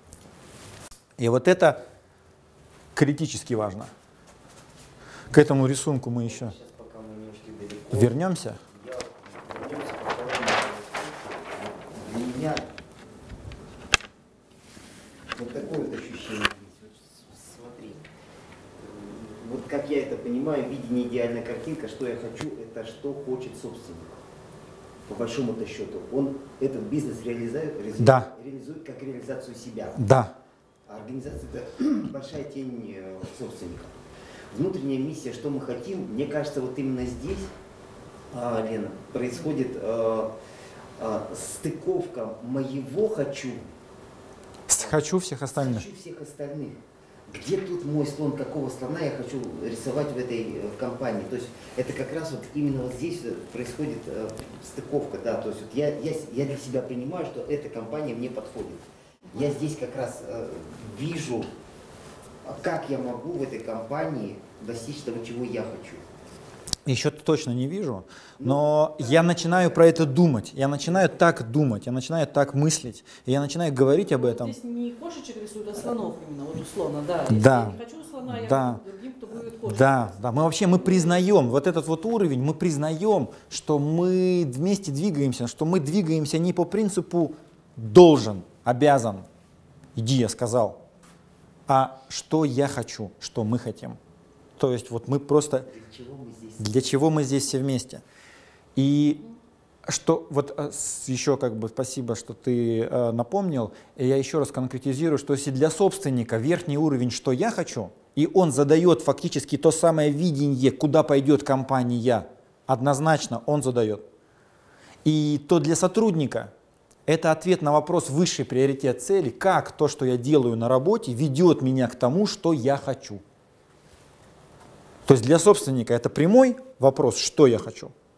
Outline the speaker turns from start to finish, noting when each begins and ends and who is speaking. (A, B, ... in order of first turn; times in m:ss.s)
0:01.2-0:01.8 A
0:03.0-0:03.9 A
0:05.3-0:06.5 A
0:06.2-0:12.7 B
0:07.9-0:08.6 A
0:15.3-0:18.1 B
0:18.8-0:24.2 B
0:25.1-0:30.0 B
0:28.0-0:28.3 A
0:30.0-0:30.3 A
0:30.9-0:33.9 B
0:34.5-0:37.5 B
0:38.3-0:40.3 B
0:41.0-0:43.6 B
0:44.7-0:45.9 A
0:44.8-0:45.1 B
0:45.6-1:01.5 B
1:02.4-1:06.0 B
1:06.9-1:14.5 A
1:08.4-1:10.2 B
1:14.0-1:21.3 C
1:17.3-1:18.8 A
1:19.5-1:29.3 A
1:30.0-1:30.8 A
1:31.7-1:34.0 A
1:34.6-1:35.7 A
1:35.7-1:37.0 B
1:36.6-1:38.0 A
1:38.8-1:39.2 A
1:39.9-1:54.0 A
1:55.0-1:56.5 A
1:57.1-2:03.2 A
2:05.1-2:07.9 A